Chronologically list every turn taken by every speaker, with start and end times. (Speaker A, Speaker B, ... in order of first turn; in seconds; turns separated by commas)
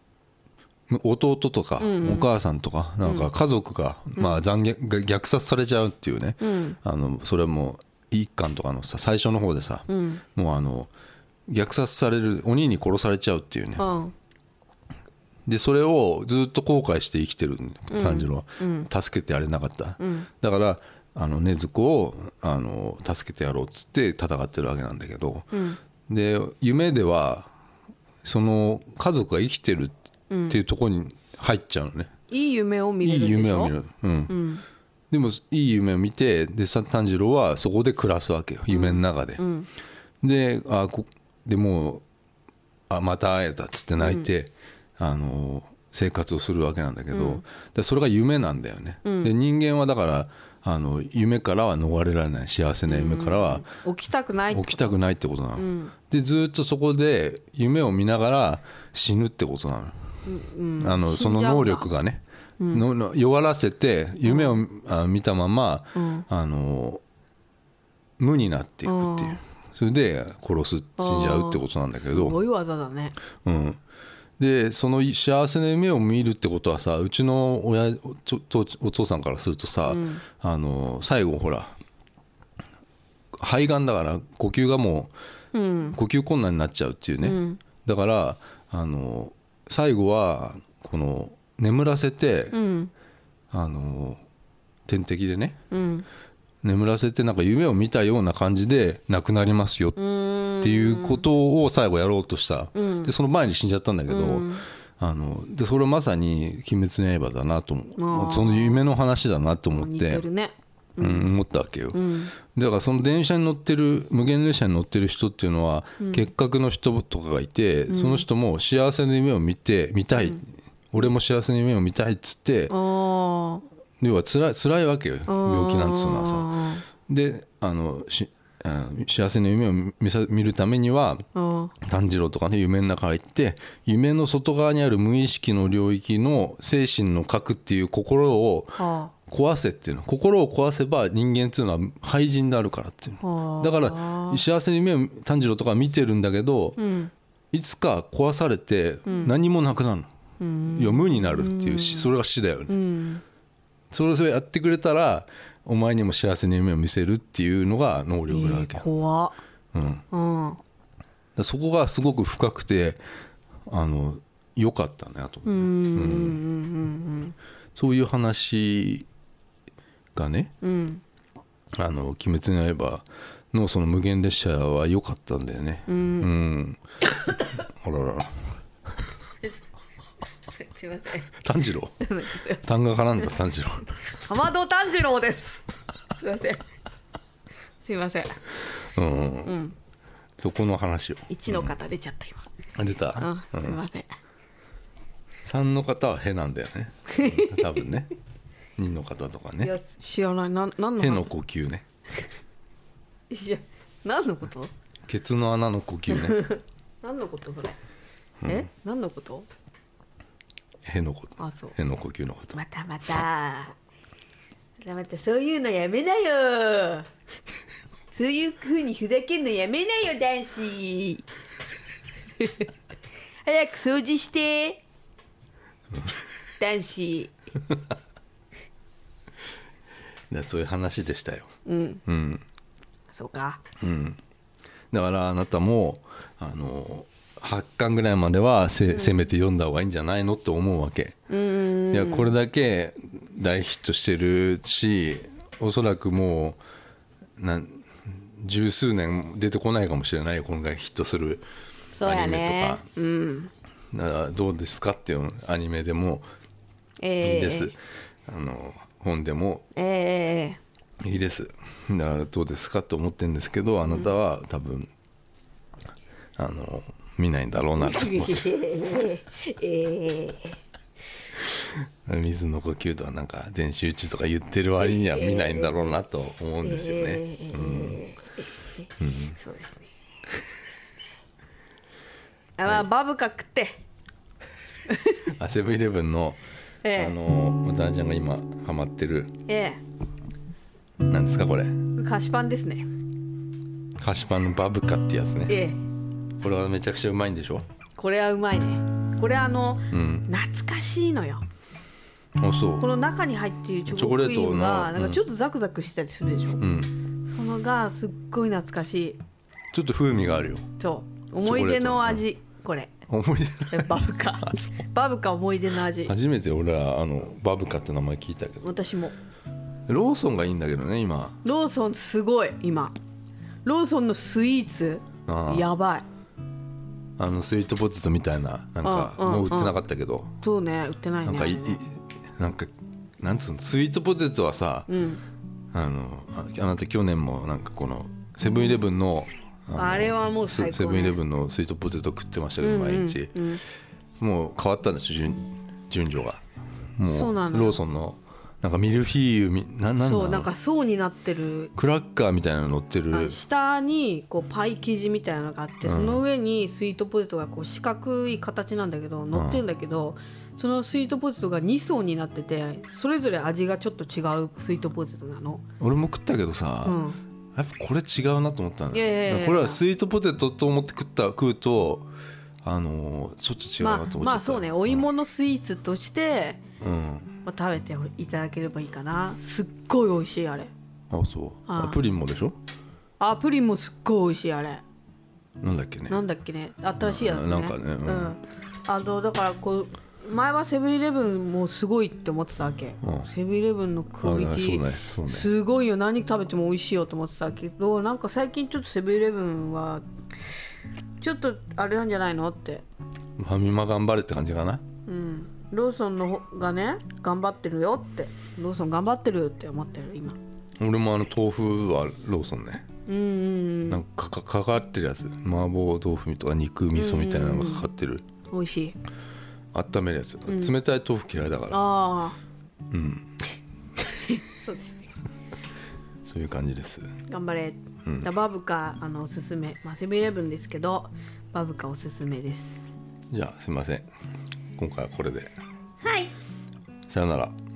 Speaker A: 0.9-10.9, Speaker B: 1.8-2.3, Speaker B: 4.2-4.4, Speaker B: 6.4-6.8, Speaker B: 9.9-10.2, Speaker A: 11.5-13.8, Speaker B: 13.8-14.1, Speaker A: 15.4-25.5, Speaker B: 17.9-18.9, Speaker B: 20.0-20.3, Speaker B: 25.5-25.8, Speaker A: 26.1-27.5, Speaker A: 28.2-29.9, Speaker B: 30.3-30.6, Speaker A: 30.5-32.1, Speaker B: 32.3-33.7, Speaker A: 33.0-34.4, Speaker B: 34.3-34.6, Speaker A: 35.1-39.4, Speaker B: 38.7-39.7, Speaker A: 40.2-42.0, Speaker A: 42.9-53.7, Speaker B: 44.0-44.3, Speaker B: 47.1-47.4, Speaker B: 49.0-49.3, Speaker B: 52.9-55.0, Speaker A: 54.5-60.0, Speaker B: 55.5-55.9, Speaker B: 60.2-61.9, Speaker A: 60.8-67.0, Speaker B: 62.6-62.8, Speaker B: 64.2-64.6, Speaker B: 65.9-66.2, Speaker A: 68.2-72.4, Speaker B: 68.8-69.4, Speaker B: 71.0-73.2, Speaker A: 73.4-73.8, Speaker A: 74.4-81.8, Speaker B: 79.8-80.2, Speaker A: 83.3-85.1, Speaker B: 85.5-86.0, Speaker A: 85.9-92.6, Speaker B: 87.2-87.6, Speaker B: 92.5-92.9, Speaker A: 93.5-94.2, Speaker A: 94.8-95.6, Speaker B: 95.7-96.1, Speaker A: 96.6-100.0, Speaker B: 100.0-101.2, Speaker A: 100.6-110.2, Speaker B: 102.7-103.1, Speaker B: 104.1-104.6, Speaker B: 108.0-108.8, Speaker B: 109.7-111.3, Speaker A: 111.0-122.7, Speaker B: 111.9-112.3, Speaker B: 116.0-116.3, Speaker B: 117.9-118.3, Speaker B: 122.7-123.6, Speaker A: 124.0-126.5, Speaker B: 125.3-126.8, Speaker A: 127.1-131.2, Speaker B: 131.3-131.7, Speaker A: 131.8-146.8, Speaker B: 138.8-139.1, Speaker B: 143.2-144.4, Speaker B: 146.8-147.1, Speaker A: 147.5-150.1, Speaker B: 149.1-149.3, Speaker B: 150.4-152.1, Speaker A: 150.7-152.8, Speaker B: 152.7-153.2, Speaker A: 153.9-158.8, Speaker B: 158.3-159.4, Speaker A: 159.7-160.0, Speaker B: 160.1-160.6, Speaker A: 161.3-163.0, Speaker A: 163.7-166.4, Speaker B: 165.4-167.3, Speaker A: 167.8-169.1, Speaker A: 170.1-170.5, Speaker B: 170.6-171.0, Speaker A: 171.8-176.8, Speaker B: 175.9-176.3, Speaker B: 177.2-177.5, Speaker A: 177.8-178.5, Speaker B: 180.5-181.3, Speaker A: 181.3-183.9, Speaker B: 182.0-182.7, Speaker B: 184.0-186.7, Speaker B: 187.8-188.5, Speaker A: 188.8-189.5, Speaker B: 189.4-189.8, Speaker A: 190.4-191.7, Speaker B: 191.3-192.5, Speaker A: 192.8-193.8, Speaker B: 193.2-194.1, Speaker A: 195.4-198.1, Speaker B: 197.1-197.8, Speaker A: 198.8-199.7, Speaker B: 199.6-201.3, Speaker A: 201.0-201.8, Speaker B: 203.3-204.7, Speaker A: 205.1-206.4, Speaker B: 206.1-207.8, Speaker A: 208.4-208.7, Speaker B: 208.4-209.5, Speaker A: 210.8-212.6, Speaker B: 211.4-211.8, Speaker B: 212.5-213.8, Speaker B: 214.8-217.1, Speaker B: 218.1-221.2, Speaker B: 222.4-222.7, Speaker B: 223.4-224.8, Speaker B: 226.6-227.3, Speaker A: 230.3-231.5, Speaker B: 231.7-232.0, Speaker A: 232.1-232.4, Speaker B: 233.1-233.6, Speaker A: 233.8-234.2, Speaker A: 234.9-241.2, Speaker B: 238.9-239.3, Speaker B: 241.3-242.3, Speaker A: 241.9-246.6, Speaker A: 247.4-251.4, Speaker B: 251.9-253.5, Speaker A: 252.0-252.8, Speaker A: 253.9-256.2, Speaker B: 257.0-257.7, Speaker A: 257.2-259.6, Speaker B: 259.7-260.6, Speaker A: 261.0-264.9, Speaker B: 263.9-264.1, Speaker A: 266.4-268.4, Speaker B: 267.8-270.6, Speaker A: 271.4-278.0, Speaker B: 274.8-275.9, Speaker B: 276.6-279.9, Speaker A: 279.0-279.4, Speaker B: 282.6-283.8, Speaker B: 284.9-285.3, Speaker A: 285.3-286.4, Speaker B: 286.8-287.1, Speaker A: 286.9-289.4, Speaker B: 289.5-289.8, Speaker A: 291.1-291.9, Speaker B: 291.9-292.9, Speaker A: 294.0-295.6, Speaker B: 295.5-295.8, Speaker A: 296.4-297.6, Speaker B: 298.0-301.4, Speaker A: 299.9-300.3, Speaker A: 302.4-302.9, Speaker B: 302.8-306.6, Speaker A: 303.9-305.2, Speaker A: 306.6-306.9, Speaker B: 307.2-309.2, Speaker A: 309.7-310.7, Speaker B: 310.8-312.9, Speaker A: 311.4-312.2, Speaker A: 313.1-314.8, Speaker B: 313.7-316.1, Speaker A: 316.0-318.7, Speaker B: 318.6-319.1, Speaker A: 319.9-321.4, Speaker B: 321.4-322.9, Speaker B: 323.6-326.1, Speaker A: 325.3-325.7, Speaker A: 327.2-330.4, Speaker B: 328.8-329.8, Speaker B: 330.4-331.8, Speaker A: 331.2-334.9, Speaker B: 334.9-335.2, Speaker A: 335.7-343.4, Speaker B: 339.7-341.2, Speaker B: 342.6-343.6, Speaker A: 344.2-346.4, Speaker A: 347.0-350.5, Speaker B: 347.1-347.8, Speaker B: 350.0-351.7, Speaker A: 351.7-353.4, Speaker B: 353.1-365.6, Speaker A: 355.8-356.2, Speaker A: 359.3-359.6, Speaker A: 365.8-372.1, Speaker B: 366.8-367.2, Speaker B: 368.9-369.8, Speaker A: 372.6-375.1, Speaker B: 373.8-376.6, Speaker A: 376.8-377.4, Speaker B: 377.4-380.7, Speaker A: 381.1-382.6, Speaker B: 381.7-382.0, Speaker B: 383.2-384.8, Speaker A: 385.6-386.2, Speaker B: 386.1-400.0, Speaker A: 387.0-388.4, Speaker A: 393.0-393.3, Speaker A: 394.2-395.5, Speaker B: 401.2-402.8, Speaker A: 403.4-404.8, Speaker B: 405.1-410.4, Speaker A: 410.8-412.9, Speaker B: 413.1-414.0, Speaker A: 413.9-418.2, Speaker B: 416.9-417.9, Speaker B: 418.5-418.9, Speaker A: 419.7-421.9, Speaker B: 420.5-420.7, Speaker B: 421.7-422.4, Speaker A: 422.9-423.3, Speaker B: 424.2-425.1, Speaker A: 426.2-427.1, Speaker B: 427.3-432.8, Speaker A: 428.0-428.3, Speaker A: 433.3-434.1, Speaker A: 434.8-435.5, Speaker B: 436.0-436.3, Speaker A: 437.1-437.6